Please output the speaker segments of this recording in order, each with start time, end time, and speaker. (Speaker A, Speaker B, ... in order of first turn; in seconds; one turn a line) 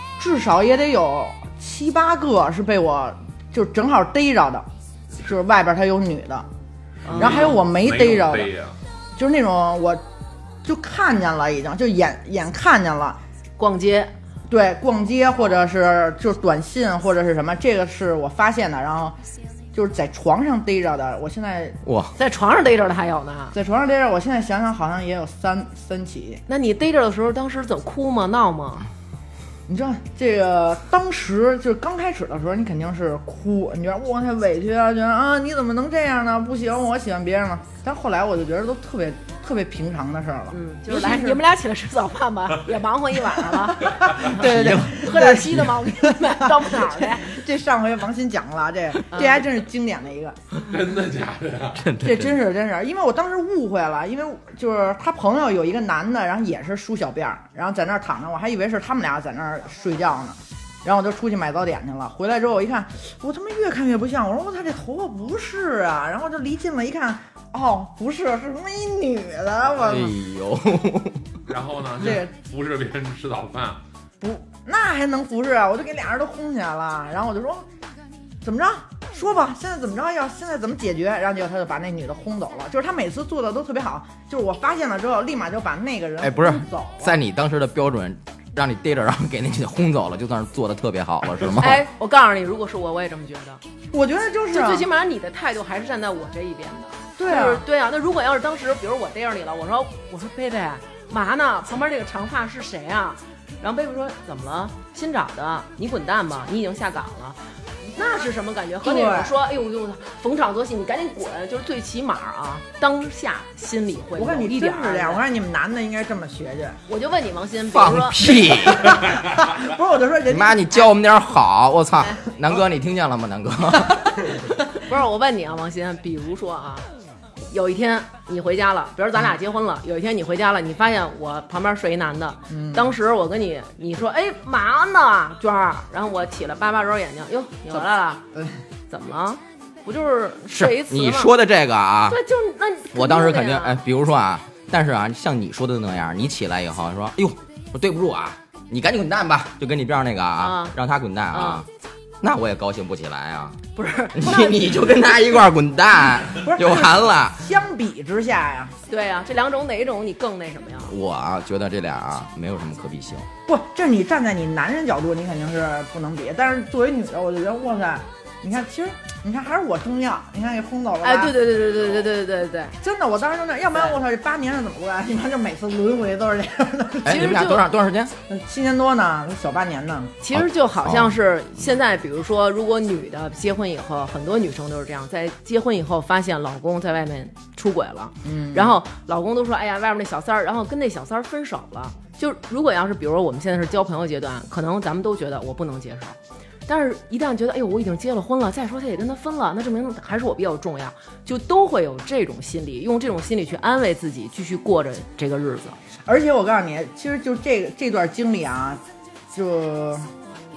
Speaker A: 0.2-4.7
Speaker A: 5.2-6.5
Speaker B: 7.0-7.5
Speaker C: 7.1-8.8
Speaker A: 7.2-8.5
Speaker A: 9.2-10.0
Speaker A: 10.6-13.2
Speaker B: 13.6-14.1
Speaker A: 14.5-19.2
Speaker A: 19.7-21.8
Speaker D: 21.8-22.1
Speaker B: 22.2-23.5
Speaker A: 23.5-26.4
Speaker B: 26.5-28.9
Speaker A: 29.7-41.4
Speaker B: 40.5-47.3
Speaker A: 43.7-50.4
Speaker D: 44.3-45.6
Speaker B: 49.1-49.4
Speaker C: 50.6-51.8
Speaker D: 51.7-52.4
Speaker A: 52.0-70.1
Speaker D: 69.7-71.3
Speaker C: 71.5-73.8
Speaker A: 72.0-72.3
Speaker A: 74.2-77.7
Speaker A: 78.4-87.2
Speaker D: 86.2-91.8
Speaker B: 91.6-93.6
Speaker A: 93.9-94.9
Speaker B: 94.5-107.4
Speaker A: 97.2-97.6
Speaker B: 107.9-115.2
Speaker A: 108.8-109.3
Speaker A: 114.2-116.8
Speaker B: 116.9-118.2
Speaker D: 117.7-119.0
Speaker A: 118.7-120.8
Speaker D: 120.3-124.1
Speaker B: 124.8-126.8
Speaker B: 127.5-138.2
Speaker A: 132.5-132.9
Speaker A: 137.7-138.6
Speaker B: 138.9-141.3
Speaker D: 140.5-142.2
Speaker B: 142.1-143.8
Speaker D: 142.9-151.7
Speaker B: 150.4-150.7
Speaker B: 151.3-151.6
Speaker D: 152.2-153.6
Speaker B: 153.8-154.5
Speaker D: 154.1-157.5
Speaker A: 156.4-158.7
Speaker B: 158.9-160.9
Speaker D: 160.8-163.3
Speaker A: 163.5-172.1
Speaker B: 171.0-172.8
Speaker A: 172.8-177.3
Speaker D: 177.0-178.1
Speaker B: 177.1-177.6
Speaker A: 178.3-180.2
Speaker B: 180.2-205.8
Speaker D: 180.3-181.2
Speaker A: 188.2-188.8
Speaker A: 206.0-210.1